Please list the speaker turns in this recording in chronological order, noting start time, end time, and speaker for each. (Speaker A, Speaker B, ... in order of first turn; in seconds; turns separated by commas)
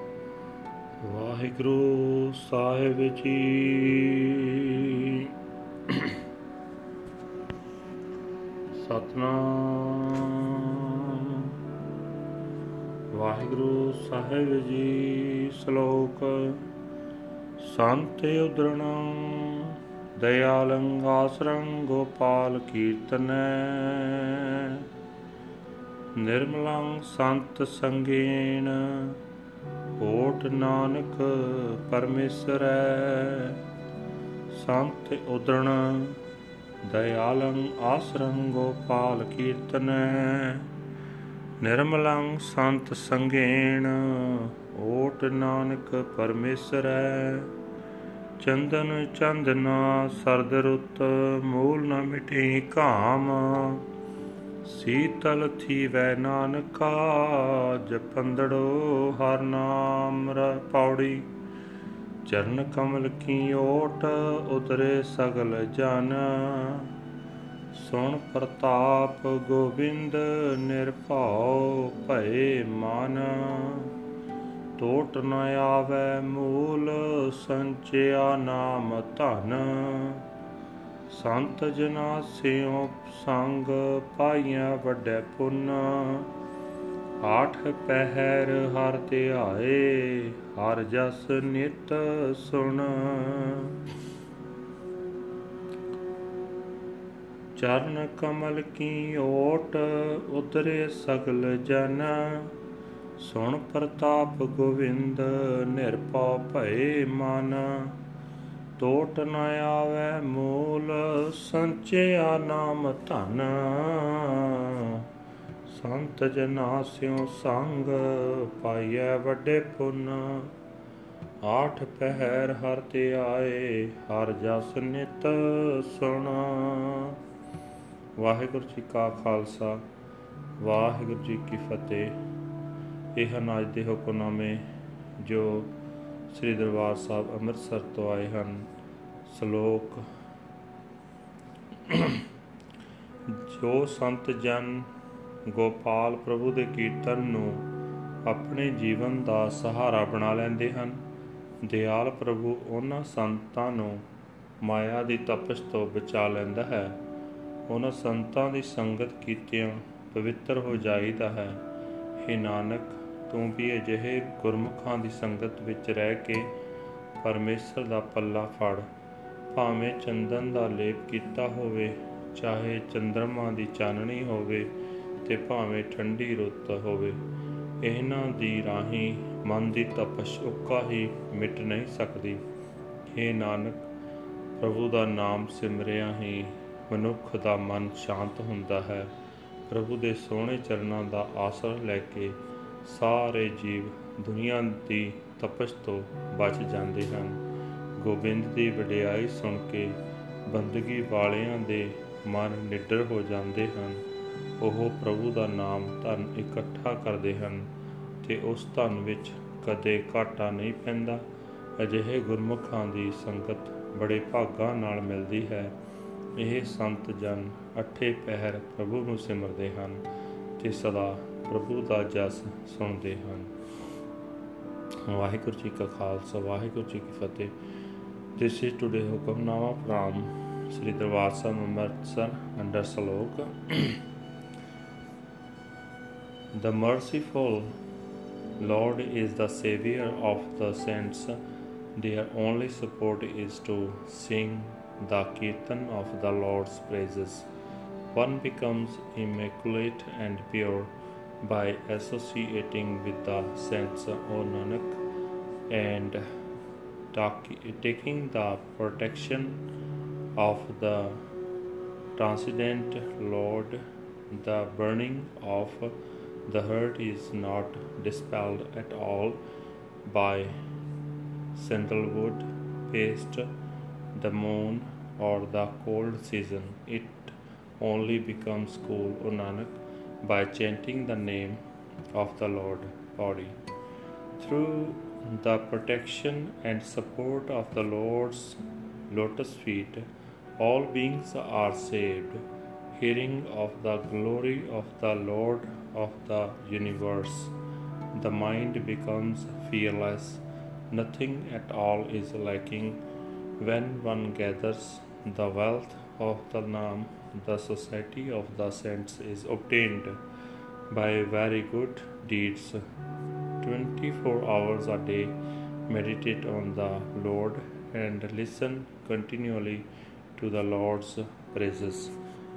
Speaker A: 1.0-5.3, Speaker A: 5.9-6.1, Speaker A: 8.8-11.6, Speaker A: 13.1-16.6, Speaker A: 17.6-24.9, Speaker A: 26.1-29.2, Speaker A: 30.0-33.6, Speaker A: 34.5-36.2, Speaker A: 36.8-40.7, Speaker A: 41.6-47.5, Speaker A: 48.4-53.8, Speaker A: 54.6-61.3, Speaker A: 62.2-66.9, Speaker A: 67.7-73.9, Speaker A: 74.8-80.3, Speaker A: 81.1-86.3, Speaker A: 87.2-93.8, Speaker A: 97.5-102.5, Speaker A: 103.2-108.0, Speaker A: 108.8-115.0, Speaker A: 115.7-120.5, Speaker A: 121.4-127.2, Speaker A: 128.2-129.8, Speaker A: 130.6-132.2, Speaker A: 133.1-134.6, Speaker A: 135.2-135.7, Speaker A: 136.3-138.7, Speaker A: 139.2-140.1, Speaker A: 141.8-142.2, Speaker A: 143.3-144.9, Speaker A: 145.5-147.7, Speaker A: 148.2-151.0, Speaker A: 151.6-154.0, Speaker A: 154.6-157.0, Speaker A: 157.7-161.6, Speaker A: 162.2-166.5, Speaker A: 167.2-168.9, Speaker A: 169.5-174.7, Speaker A: 175.2-177.2, Speaker A: 177.8-182.4, Speaker A: 183.1-183.8, Speaker A: 184.6-189.1, Speaker A: 189.7-197.4, Speaker A: 198.0-204.0, Speaker A: 204.6-207.7, Speaker A: 208.2-211.2, Speaker A: 211.8-215.7, Speaker A: 216.3-220.0, Speaker A: 220.6-223.5, Speaker A: 225.0-227.5, Speaker A: 228.3-234.0, Speaker A: 236.5-237.7, Speaker A: 238.6-241.4, Speaker A: 241.9-247.5, Speaker A: 248.1-255.0, Speaker A: 255.7-256.2, Speaker A: 257.1-259.6, Speaker A: 260.3-261.2, Speaker A: 262.1-265.9, Speaker A: 266.5-269.4, Speaker A: 270.0-270.6, Speaker A: 271.5-273.5, Speaker A: 274.1-281.6, Speaker A: 282.1-283.6, Speaker A: 284.4-290.1, Speaker A: 290.6-297.5, Speaker A: 298.1-303.0, Speaker A: 303.6-310.2, Speaker A: 310.9-312.8, Speaker A: 313.6-322.1